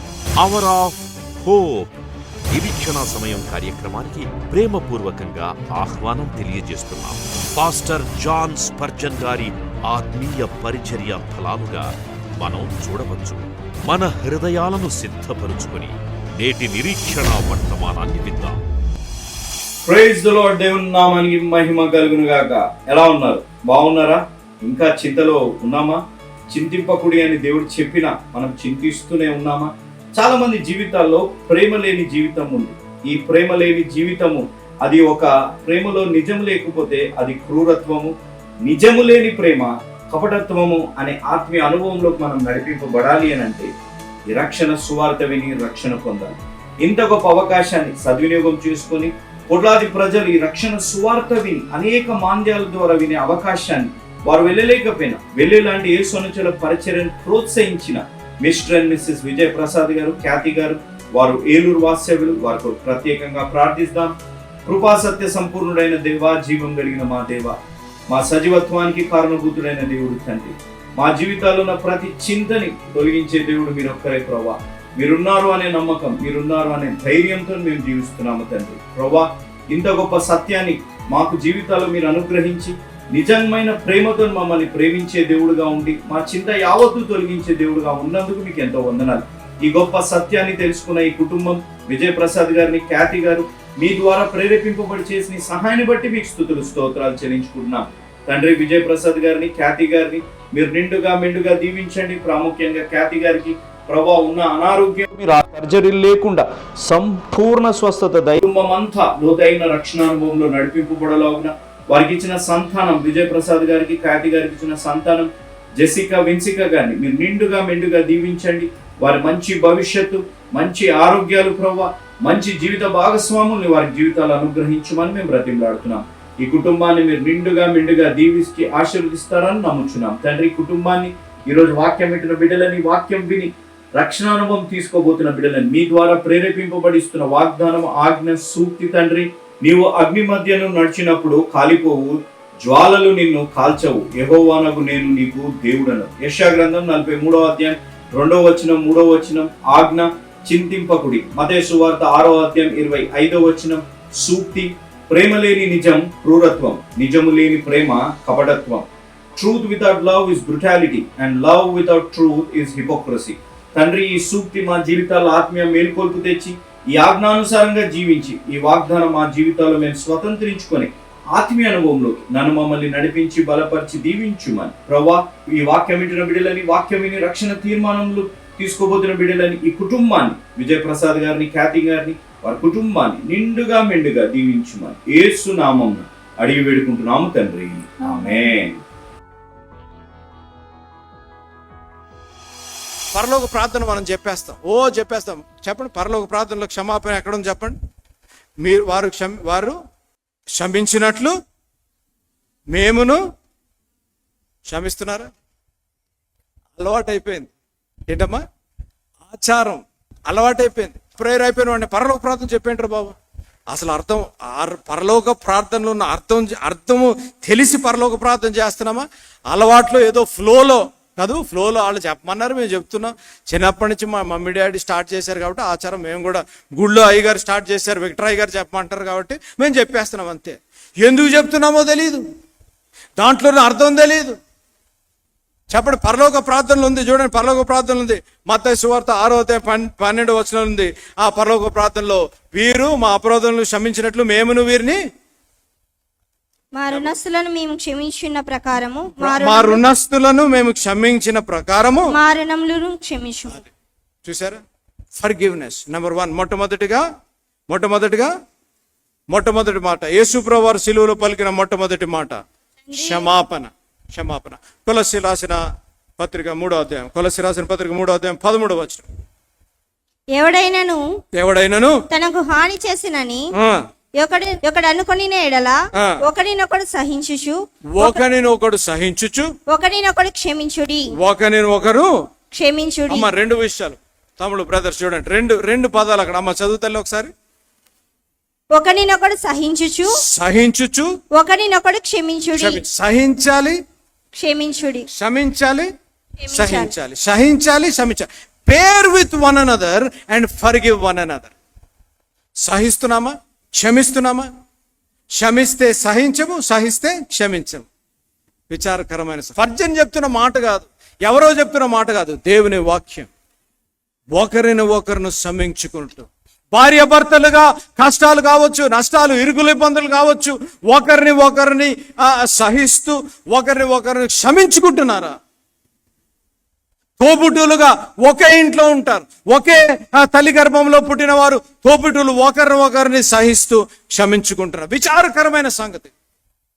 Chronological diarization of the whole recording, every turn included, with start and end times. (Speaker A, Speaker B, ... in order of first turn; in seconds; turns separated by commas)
Speaker A: 0.4-18.6, Speaker B: 19.9-38.1, Speaker B: 38.6-43.7, Speaker B: 44.3-188.8, Speaker C: 193.1-197.8, Speaker C: 198.6-199.8, Speaker C: 200.6-201.3, Speaker C: 202.7-203.2, Speaker C: 204.7-205.3, Speaker C: 206.8-207.5, Speaker C: 208.1-208.4, Speaker C: 209.3-213.2, Speaker C: 213.7-232.2, Speaker C: 233.2-234.4, Speaker C: 235.7-245.0, Speaker D: 246.8-249.8, Speaker C: 249.2-252.1, Speaker D: 252.1-253.7, Speaker C: 254.2-254.6, Speaker C: 255.2-257.0, Speaker C: 257.7-258.3, Speaker C: 259.3-262.4, Speaker D: 262.9-263.3, Speaker C: 262.9-265.6, Speaker C: 266.2-269.1, Speaker D: 270.4-271.0, Speaker C: 271.4-272.0, Speaker D: 272.1-273.5, Speaker C: 273.6-273.8, Speaker D: 274.2-278.2, Speaker C: 278.0-279.5, Speaker D: 279.7-281.1, Speaker C: 281.2-282.1, Speaker D: 282.5-283.3, Speaker C: 283.1-287.3, Speaker D: 288.7-290.1, Speaker C: 290.2-291.1, Speaker D: 291.4-292.8, Speaker C: 292.6-293.8, Speaker D: 294.4-295.1, Speaker C: 295.1-295.9, Speaker D: 296.4-296.9, Speaker C: 296.5-301.5, Speaker C: 302.6-304.5, Speaker C: 305.4-307.9, Speaker C: 308.7-313.3, Speaker C: 314.4-325.4, Speaker C: 327.2-336.1